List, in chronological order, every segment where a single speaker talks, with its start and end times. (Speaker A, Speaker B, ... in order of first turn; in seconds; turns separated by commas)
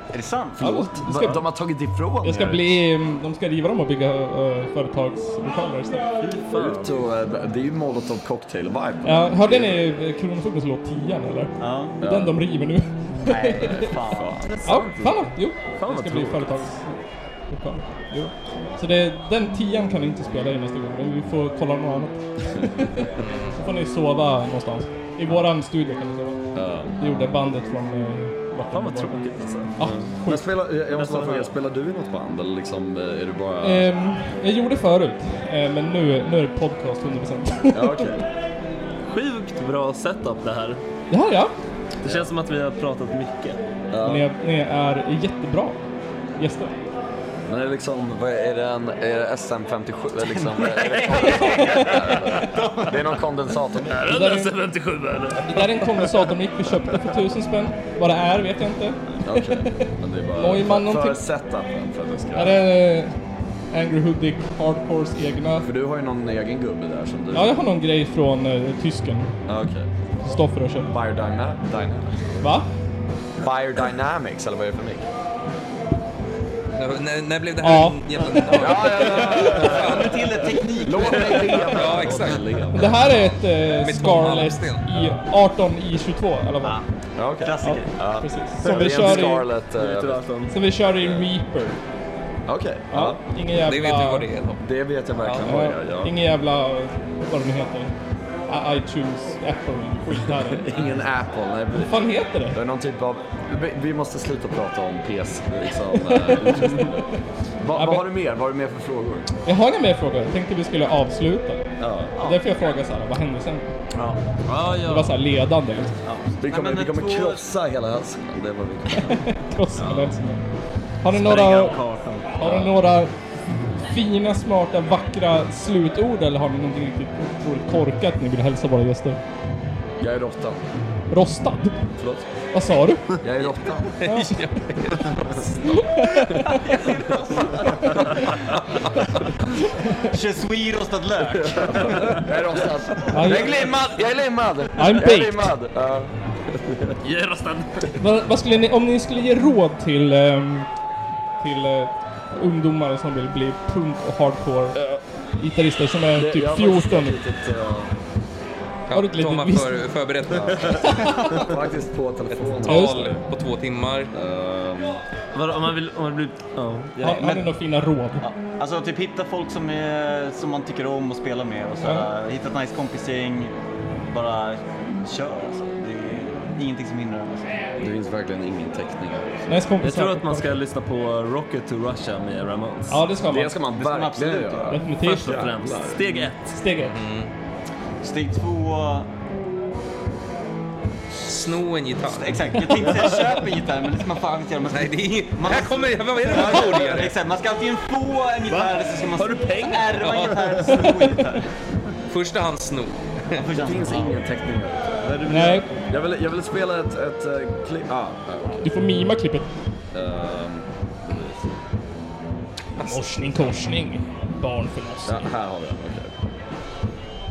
Speaker A: 0.1-0.7, Speaker B: 0.6-2.8, Speaker C: 0.6-1.5, Speaker C: 2.2-6.0, Speaker B: 6.2-9.9, Speaker D: 6.3-7.0, Speaker C: 9.1-13.9, Speaker A: 11.6-12.0, Speaker B: 12.0-12.4, Speaker A: 13.2-14.7, Speaker B: 13.6-14.9, Speaker C: 14.6-17.0, Speaker D: 14.7-15.3, Speaker D: 15.8-16.7, Speaker C: 17.5-30.4, Speaker E: 23.2-23.6, Speaker B: 26.5-27.0, Speaker D: 28.7-29.8, Speaker B: 29.8-33.9, Speaker D: 30.9-31.5, Speaker C: 33.6-38.2, Speaker B: 37.7-38.2, Speaker D: 39.1-40.8, Speaker C: 41.1-41.5, Speaker D: 42.0-43.6, Speaker B: 42.0-42.3, Speaker B: 43.9-44.3, Speaker C: 44.0-45.8, Speaker C: 46.4-46.8, Speaker B: 47.5-54.0, Speaker A: 50.3-53.2, Speaker D: 50.8-52.4, Speaker D: 53.8-56.3, Speaker C: 54.1-54.6, Speaker C: 55.4-61.2, Speaker B: 59.2-62.6, Speaker C: 62.3-63.2, Speaker C: 63.7-65.7, Speaker B: 65.6-67.6, Speaker C: 67.3-69.4, Speaker B: 69.5-69.9, Speaker C: 70.2-70.9, Speaker B: 70.9-72.3, Speaker C: 72.4-72.7, Speaker B: 73.4-75.1, Speaker E: 76.8-80.4, Speaker C: 77.6-78.5, Speaker A: 78.2-82.2, Speaker B: 78.5-80.3, Speaker B: 80.8-83.2, Speaker E: 81.7-84.9, Speaker C: 82.7-86.8, Speaker B: 87.2-90.2, Speaker A: 87.4-87.9, Speaker C: 87.6-89.5, Speaker D: 88.7-90.6, Speaker C: 90.5-91.8, Speaker B: 91.0-91.3, Speaker B: 92.5-93.2, Speaker C: 92.9-94.3, Speaker E: 93.6-94.6, Speaker B: 94.6-96.1, Speaker E: 95.2-95.5, Speaker C: 95.4-97.9, Speaker C: 98.5-100.8, Speaker B: 100.3-107.1, Speaker C: 101.7-102.6, Speaker C: 106.0-107.1, Speaker B: 107.6-109.3, Speaker C: 107.7-108.1, Speaker C: 109.5-113.7, Speaker B: 111.8-112.1, Speaker D: 114.5-115.2, Speaker C: 114.7-116.0, Speaker A: 116.0-117.4, Speaker B: 116.4-119.3, Speaker C: 118.9-120.4, Speaker C: 121.0-123.1, Speaker D: 121.1-122.3, Speaker B: 122.4-122.8, Speaker C: 123.8-129.2, Speaker B: 130.0-130.6, Speaker C: 131.1-131.8, Speaker B: 131.9-132.3, Speaker C: 132.5-133.2, Speaker B: 133.2-133.9, Speaker E: 134.0-135.5, Speaker C: 134.0-134.6, Speaker C: 135.3-136.7, Speaker A: 137.2-137.5, Speaker C: 139.6-140.1, Speaker A: 140.1-142.3, Speaker B: 141.4-146.2, Speaker C: 143.1-143.5, Speaker A: 143.1-143.8, Speaker C: 144.8-145.4, Speaker D: 147.0-148.0, Speaker C: 147.9-150.7, Speaker C: 151.4-154.8, Speaker B: 154.8-155.0, Speaker C: 155.4-157.2, Speaker B: 156.1-158.0, Speaker E: 158.9-161.3, Speaker C: 158.9-159.8, Speaker B: 160.3-163.2, Speaker C: 160.8-161.4, Speaker E: 162.3-164.1, Speaker C: 162.7-163.2, Speaker B: 164.1-165.0, Speaker D: 165.3-167.3, Speaker C: 167.0-168.2, Speaker A: 167.1-167.6, Speaker A: 168.2-177.5, Speaker C: 171.8-172.1, Speaker B: 177.8-179.5, Speaker C: 179.5-180.6, Speaker D: 179.8-183.0, Speaker C: 182.9-183.6, Speaker B: 183.3-186.3, Speaker A: 183.7-184.8, Speaker C: 184.7-185.5, Speaker D: 185.0-186.6, Speaker C: 186.5-187.0, Speaker E: 186.8-187.3, Speaker A: 188.0-189.1, Speaker E: 191.2-192.6, Speaker A: 192.1-201.5, Speaker E: 194.7-197.2, Speaker D: 198.5-200.8, Speaker E: 200.0-200.7, Speaker E: 202.1-203.7, Speaker A: 203.3-204.2, Speaker B: 203.5-205.0, Speaker A: 205.0-205.7, Speaker C: 205.3-205.7, Speaker B: 205.9-208.7, Speaker C: 208.6-209.5, Speaker B: 209.9-211.5, Speaker E: 212.8-213.5, Speaker C: 212.8-215.3, Speaker B: 215.1-216.1